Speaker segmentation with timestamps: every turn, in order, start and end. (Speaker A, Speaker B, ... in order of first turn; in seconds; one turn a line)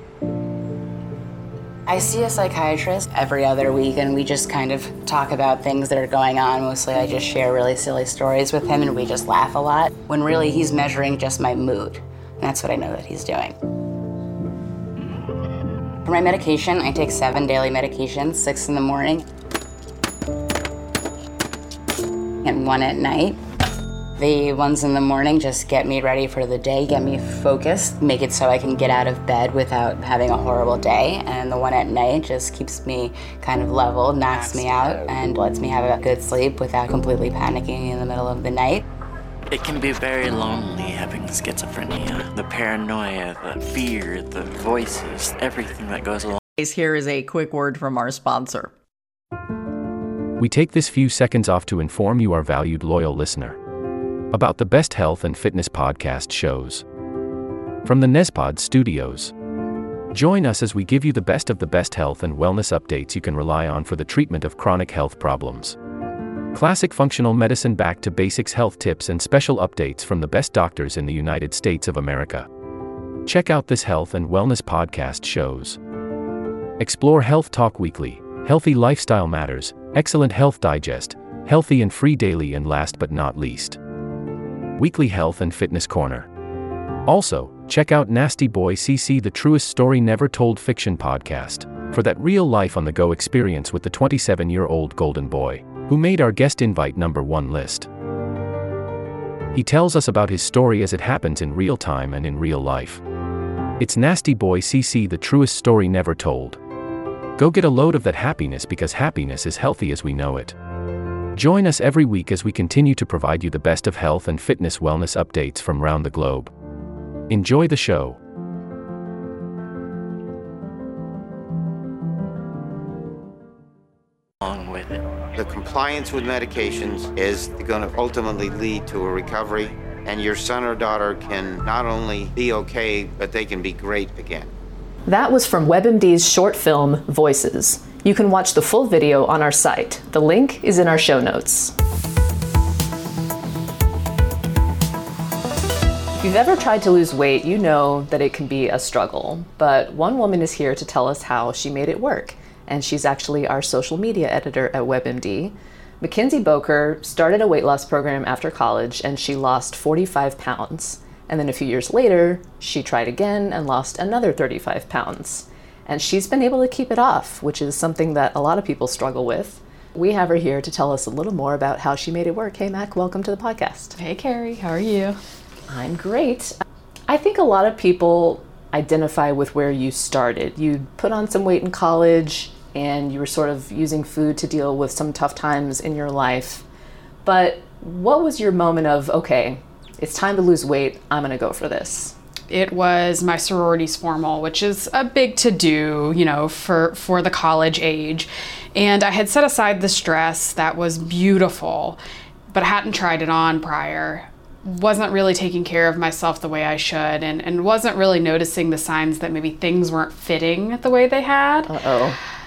Speaker A: 1.9-13.5
Speaker A: 16.0-19.2
Speaker A: 22.4-23.4
Speaker A: 24.2-38.9
Speaker B: 39.5-46.4
Speaker C: 46.6-48.7
Speaker D: 50.4-53.6
Speaker D: 54.3-56.8
Speaker D: 57.8-59.3
Speaker D: 60.1-65.8
Speaker D: 66.5-72.5
Speaker D: 73.2-75.8
Speaker D: 76.8-83.8
Speaker D: 84.8-86.3
Speaker D: 87.0-97.9
Speaker D: 99.5-103.0
Speaker D: 103.8-106.6
Speaker D: 107.4-110.5
Speaker D: 111.3-116.5
Speaker D: 117.3-118.2
Speaker B: 124.4-125.0
Speaker E: 125.3-134.5
Speaker F: 135.1-141.7
Speaker F: 146.1-173.9
Speaker G: 174.0-175.2
Speaker F: 175.7-176.5
Speaker F: 177.1-186.6
Speaker F: 187.2-192.1
Speaker G: 192.5-202.0
Speaker G: 202.5-211.7
Speaker F: 211.7-212.2